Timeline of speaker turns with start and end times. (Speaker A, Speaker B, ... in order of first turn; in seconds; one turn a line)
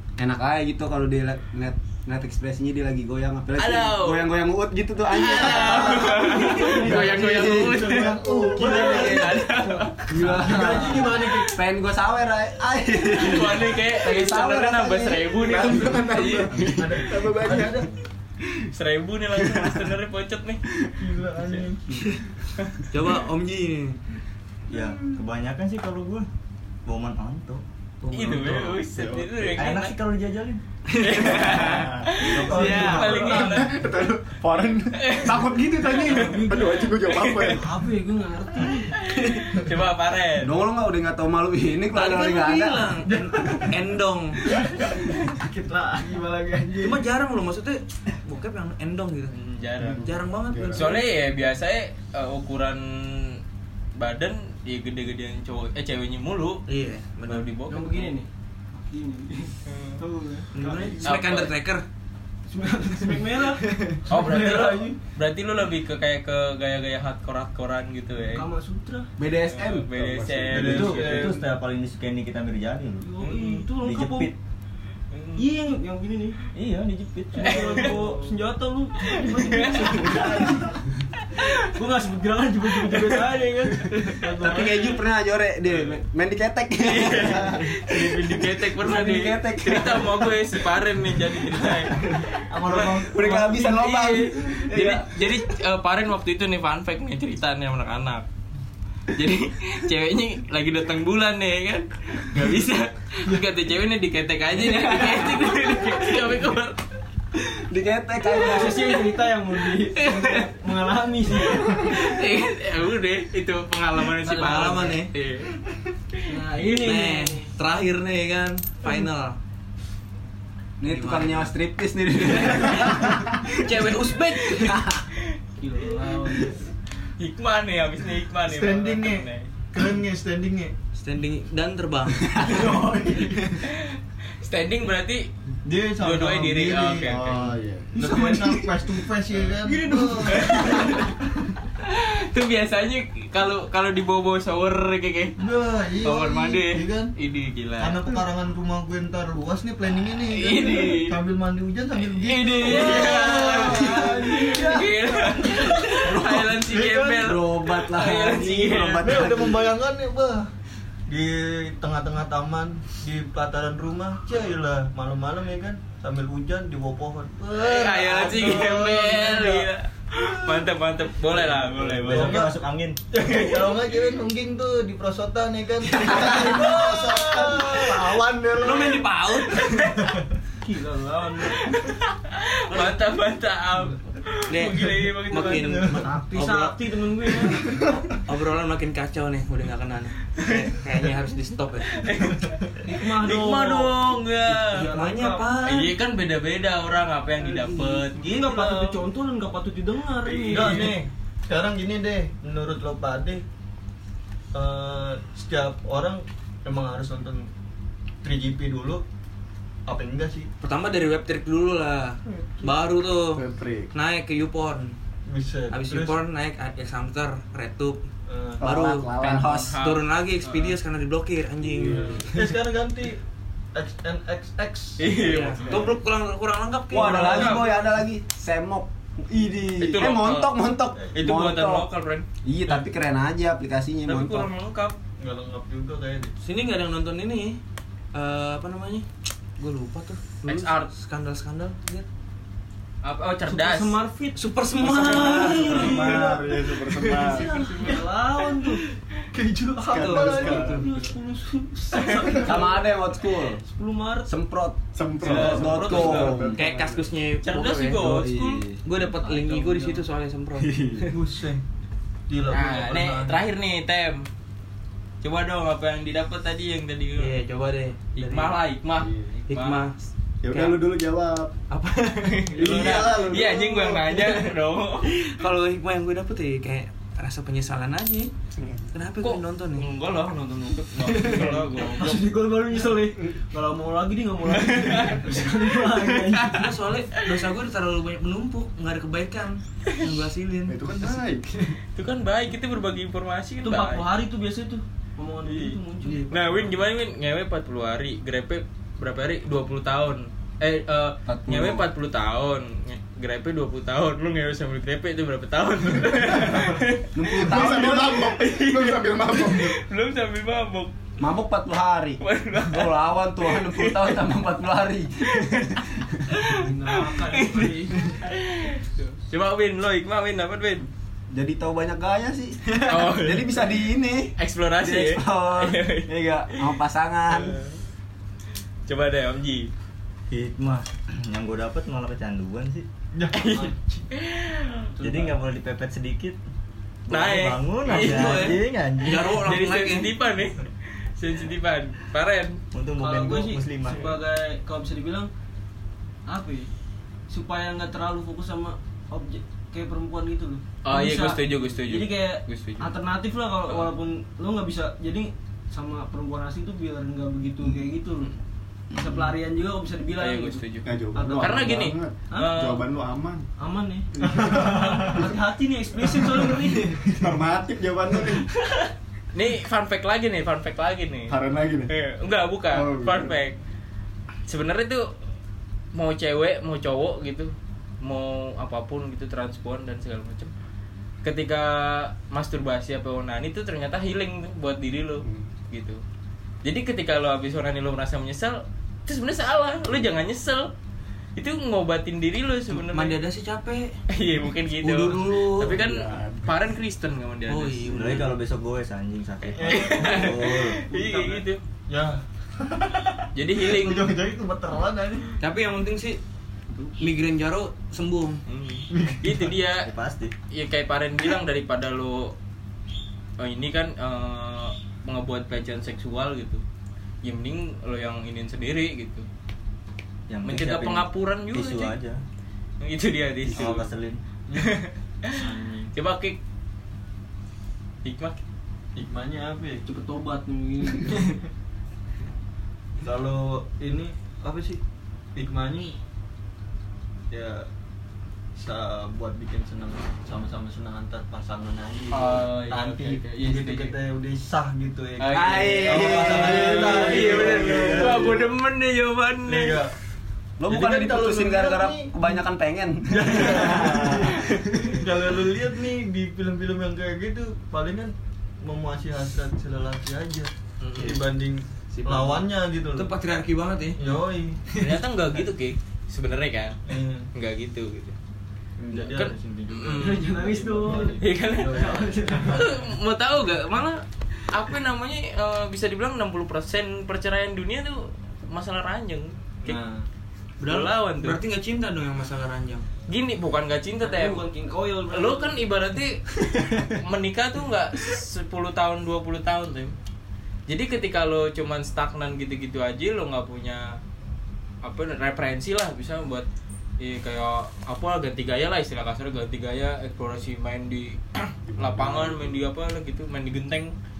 Speaker A: 0.2-9.3
Speaker B: 3.6-4.3
Speaker B: 5.1-10.1
Speaker C: 5.7-9.4
Speaker D: 6.1-6.7
Speaker E: 8.3-8.6
Speaker F: 8.7-9.0
Speaker A: 10.1-15.9
Speaker C: 10.2-11.6
Speaker B: 13.1-16.6
Speaker E: 15.4-17.9
Speaker C: 16.7-17.9
Speaker B: 18.7-20.6
Speaker C: 21.0-22.2
Speaker F: 22.9-24.0
Speaker G: 24.7-26.3
Speaker G: 26.9-27.6
Speaker F: 28.0-28.8
Speaker B: 28.1-29.9
Speaker E: 28.7-29.7
Speaker G: 29.5-30.6
Speaker F: 30.9-31.8
Speaker B: 31.0-33.8
Speaker E: 31.2-32.2
Speaker G: 32.2-33.2
Speaker C: 32.2-33.6
Speaker F: 32.5-33.3
Speaker E: 33.0-37.6
Speaker B: 34.9-37.6
Speaker D: 36.1-36.8
Speaker D: 37.5-39.0
Speaker B: 39.0-40.5
Speaker A: 40.4-42.9
Speaker F: 41.9-44.4
Speaker C: 43.1-43.6
Speaker D: 45.9-47.0
Speaker F: 46.8-49.3
Speaker B: 49.3-50.1
Speaker E: 49.8-51.0
Speaker F: 50.0-51.0
Speaker B: 50.7-53.4
Speaker B: 54.0-56.6
Speaker F: 56.7-57.5
Speaker B: 57.3-58.2
Speaker D: 57.7-61.1
Speaker B: 59.6-60.0
Speaker F: 60.5-61.8
Speaker B: 61.0-61.5
Speaker D: 62.5-65.0
Speaker B: 64.1-68.5
Speaker D: 68.3-69.1
Speaker A: 69.2-69.9
Speaker B: 69.5-71.4
Speaker E: 69.9-71.2
Speaker G: 70.5-73.1
Speaker D: 70.8-71.3
Speaker D: 73.0-74.3
Speaker B: 73.2-73.7
Speaker G: 73.8-74.3
Speaker B: 75.1-75.5
Speaker D: 75.3-76.4
Speaker G: 76.5-78.0
Speaker D: 77.3-80.7
Speaker B: 77.4-78.3
Speaker B: 79.0-80.3
Speaker E: 80.2-80.6
Speaker B: 81.3-81.7
Speaker D: 81.7-84.9
Speaker B: 82.9-83.2
Speaker A: 84.4-90.7
Speaker B: 86.8-98.2
Speaker G: 92.5-93.6
Speaker A: 92.9-95.3
Speaker B: 99.1-106.8
Speaker A: 107.4-109.0
Speaker D: 108.3-112.0
Speaker B: 109.8-110.5
Speaker B: 111.4-115.6
Speaker F: 114.3-115.1
Speaker D: 114.3-114.9
Speaker D: 116.3-117.5
Speaker F: 116.7-119.4
Speaker A: 120.8-123.5
Speaker F: 120.8-121.5
Speaker F: 122.3-124.8
Speaker A: 124.5-125.0
Speaker D: 125.6-126.7
Speaker B: 127.2-129.5
Speaker C: 128.5-130.7
Speaker F: 130.9-132.5
Speaker C: 132.4-133.6
Speaker B: 133.6-135.3
Speaker C: 135.6-140.9
Speaker B: 136.0-137.5
Speaker E: 137.1-138.0
Speaker D: 139.6-141.1
Speaker B: 140.3-141.0
Speaker B: 141.8-145.4
Speaker C: 145.4-147.1
Speaker B: 146.0-148.2
Speaker C: 147.8-157.3
Speaker B: 150.1-151.2
Speaker B: 151.9-159.4
Speaker A: 153.1-153.9
Speaker D: 154.4-154.8
Speaker A: 156.0-156.5
Speaker A: 157.0-159.7
Speaker C: 159.0-160.5
Speaker C: 161.1-169.7
Speaker B: 167.5-172.4
Speaker G: 171.7-173.0
Speaker C: 172.1-172.5
Speaker C: 173.1-179.1
Speaker F: 176.0-177.5
Speaker F: 178.6-179.8
Speaker B: 179.6-180.1
Speaker D: 180.6-181.6
Speaker B: 181.7-185.8
Speaker F: 184.5-186.7
Speaker D: 185.5-187.7
Speaker C: 185.8-186.1
Speaker A: 186.1-186.4
Speaker F: 187.8-192.1
Speaker B: 191.9-194.9
Speaker D: 192.8-195.6
Speaker F: 194.9-195.9
Speaker B: 195.6-199.0
Speaker D: 197.4-201.0
Speaker C: 200.2-203.4
Speaker B: 200.5-200.9
Speaker C: 204.5-207.5
Speaker C: 208.2-209.0
Speaker C: 209.8-210.5
Speaker F: 210.6-214.9
Speaker E: 213.3-213.9
Speaker C: 215.2-216.2
Speaker F: 215.7-218.1
Speaker C: 218.3-218.6
Speaker A: 218.6-219.8
Speaker F: 218.6-222.2
Speaker B: 219.2-220.8
Speaker E: 221.6-222.2
Speaker B: 221.9-222.2
Speaker C: 222.3-223.2
Speaker C: 223.7-225.8
Speaker B: 225.0-225.8
Speaker F: 225.1-227.6
Speaker E: 225.7-225.9
Speaker A: 226.9-231.9
Speaker B: 226.9-227.8
Speaker B: 229.8-230.6
Speaker B: 231.1-232.2
Speaker A: 232.4-234.5
Speaker B: 234.1-235.0
Speaker C: 235.2-236.3
Speaker F: 236.4-237.6
Speaker F: 238.1-239.1
Speaker F: 239.6-242.1
Speaker B: 240.4-240.9
Speaker B: 243.0-244.0
Speaker D: 243.5-248.8
Speaker F: 244.3-246.3
Speaker E: 244.8-247.7
Speaker D: 249.3-252.9
Speaker E: 249.8-250.9
Speaker F: 249.9-250.9
Speaker B: 251.9-252.3
Speaker A: 252.3-253.6
Speaker D: 253.6-254.3
Speaker A: 254.2-256.6
Speaker E: 254.9-257.1
Speaker B: 255.3-256.3
Speaker F: 255.5-258.2
Speaker B: 257.4-260.0
Speaker A: 258.0-258.8
Speaker F: 258.8-261.1
Speaker A: 260.7-261.0
Speaker C: 261.1-261.6
Speaker C: 262.3-263.4
Speaker B: 262.5-264.2
Speaker B: 265.2-267.3
Speaker F: 267.2-268.6
Speaker B: 268.1-269.9
Speaker E: 268.9-269.3
Speaker F: 269.5-270.8
Speaker E: 270.4-271.5
Speaker F: 271.7-272.5
Speaker B: 272.2-275.1
Speaker E: 272.5-274.1
Speaker C: 272.6-273.2
Speaker F: 275.1-278.3
Speaker E: 278.6-278.8
Speaker F: 278.9-279.9
Speaker B: 279.2-282.3
Speaker D: 281.0-286.7
Speaker B: 284.5-286.4
Speaker F: 286.5-291.2
Speaker E: 290.7-291.6
Speaker B: 291.9-294.1
Speaker D: 293.6-296.7
Speaker B: 295.4-310.9
Speaker A: 301.3-301.9
Speaker A: 307.1-308.2
Speaker E: 307.3-309.8
Speaker A: 311.2-316.0
Speaker B: 312.2-314.3
Speaker B: 315.2-320.9
Speaker D: 316.5-318.1
Speaker A: 321.3-327.6
Speaker B: 322.9-323.6
Speaker B: 324.4-326.7
Speaker B: 327.3-327.7
Speaker B: 328.9-329.7
Speaker G: 330.3-332.9
Speaker C: 333.1-333.7
Speaker B: 333.3-334.9
Speaker D: 334.9-335.4
Speaker G: 335.0-336.4
Speaker G: 337.1-339.2
Speaker B: 337.1-342.6
Speaker F: 337.9-340.1
Speaker G: 342.7-344.1
Speaker D: 343.0-345.3
Speaker D: 346.3-346.7
Speaker D: 347.3-358.3
Speaker B: 350.8-353.0
Speaker D: 358.9-361.6
Speaker B: 360.2-362.8
Speaker E: 360.8-363.4
Speaker D: 362.3-362.6
Speaker D: 363.6-367.1
Speaker C: 364.2-365.3
Speaker E: 367.1-368.5
Speaker B: 369.3-371.4
Speaker E: 371.3-371.9
Speaker B: 371.9-373.6
Speaker E: 372.7-373.4
Speaker B: 374.5-375.1
Speaker B: 375.9-380.5
Speaker B: 381.2-386.0
Speaker E: 385.2-385.4
Speaker B: 386.6-390.7
Speaker B: 391.4-393.2
Speaker F: 392.7-393.9
Speaker B: 394.1-397.9
Speaker F: 394.8-395.7
Speaker E: 395.5-396.6
Speaker F: 397.5-398.3
Speaker G: 397.9-400.8
Speaker C: 399.6-400.4
Speaker B: 399.6-401.6
Speaker D: 400.9-401.5
Speaker C: 401.9-405.3
Speaker B: 403.3-404.1
Speaker F: 405.4-406.2
Speaker D: 406.7-407.1
Speaker F: 407.0-408.4
Speaker B: 408.4-409.9
Speaker C: 408.9-409.6
Speaker G: 409.7-410.3
Speaker B: 410.5-412.3
Speaker B: 413.4-416.6
Speaker B: 417.2-419.3
Speaker G: 420.3-422.2
Speaker B: 420.4-421.9
Speaker B: 422.8-423.9
Speaker G: 423.4-424.2
Speaker B: 424.5-426.4
Speaker C: 425.3-425.9
Speaker B: 428.0-428.4
Speaker C: 428.9-429.8
Speaker D: 429.9-431.4
Speaker C: 433.0-434.8
Speaker C: 435.4-435.9
Speaker C: 437.3-437.7
Speaker C: 438.6-448.5
Speaker B: 442.1-443.9
Speaker B: 445.2-449.9
Speaker A: 445.3-448.2
Speaker E: 447.4-448.1
Speaker C: 449.5-449.9
Speaker A: 450.6-454.5
Speaker C: 450.7-452.1
Speaker C: 453.1-463.1
Speaker E: 453.7-454.2
Speaker B: 460.8-461.2
Speaker F: 461.9-462.4
Speaker F: 462.9-464.0
Speaker C: 464.0-464.6
Speaker B: 464.7-466.8
Speaker C: 466.9-467.3
Speaker B: 467.3-468.1
Speaker C: 468.8-472.7
Speaker B: 468.9-470.5
Speaker D: 469.9-472.6
Speaker B: 471.2-479.8
Speaker C: 479.6-480.1
Speaker F: 480.6-482.9
Speaker B: 480.6-481.4
Speaker B: 483.1-484.5
Speaker D: 484.0-485.6
Speaker B: 485.1-489.9
Speaker B: 490.7-494.0
Speaker B: 494.8-496.4
Speaker B: 497.0-503.9
Speaker E: 501.7-502.6